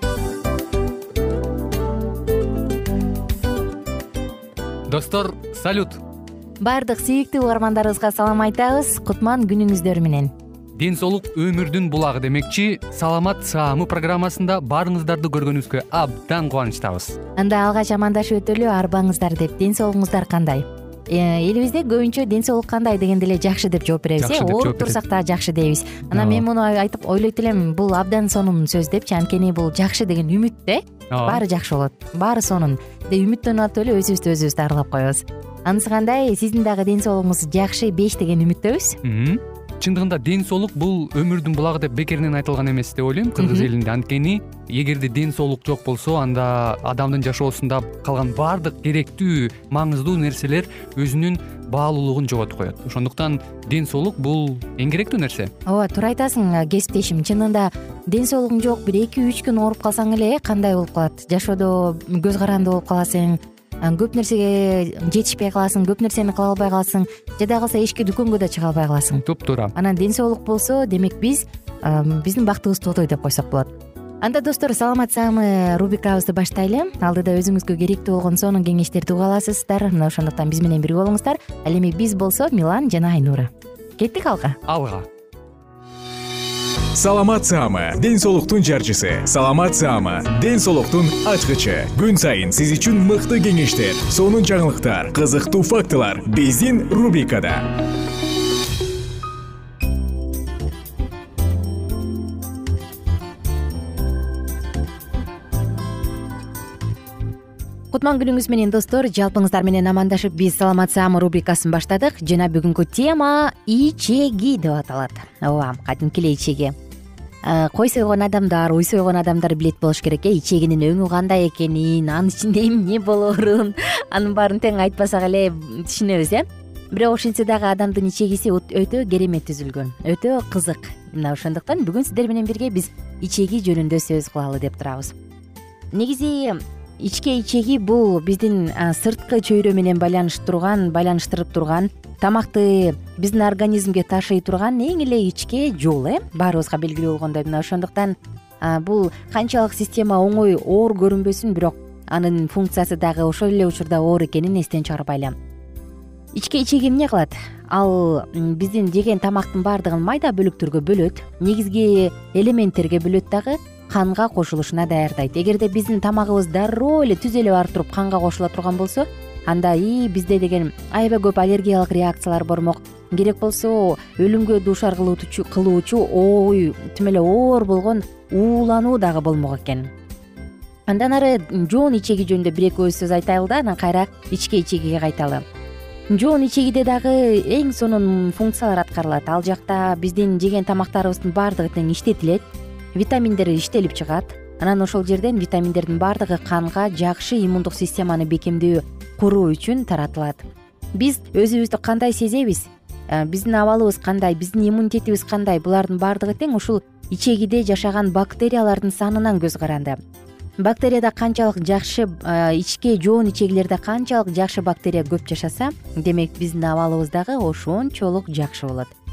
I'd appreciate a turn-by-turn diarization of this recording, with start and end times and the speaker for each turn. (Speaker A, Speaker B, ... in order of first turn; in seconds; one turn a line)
Speaker A: 4.9-6.0
Speaker B: 6.6-10.3
Speaker A: 10.8-17.2
Speaker B: 17.4-39.0
Speaker A: 24.2-25.0
Speaker A: 26.1-26.4
Speaker A: 31.1-31.4
Speaker A: 39.0-55.5
Speaker B: 43.4-43.7
Speaker B: 55.6-84.6
Speaker A: 69.2-69.7
Speaker A: 84.7-85.0
Speaker C: 86.9-97.7
Speaker B: 107.9-116.7
Speaker B: 117.4-135.2
Speaker B: 135.9-155.3
Speaker B: 156.3-179.9
Speaker B: 180.9-185.4
Speaker B: 186.1-192.4
Speaker B: 192.9-210.0
Speaker B: 210.6-218.9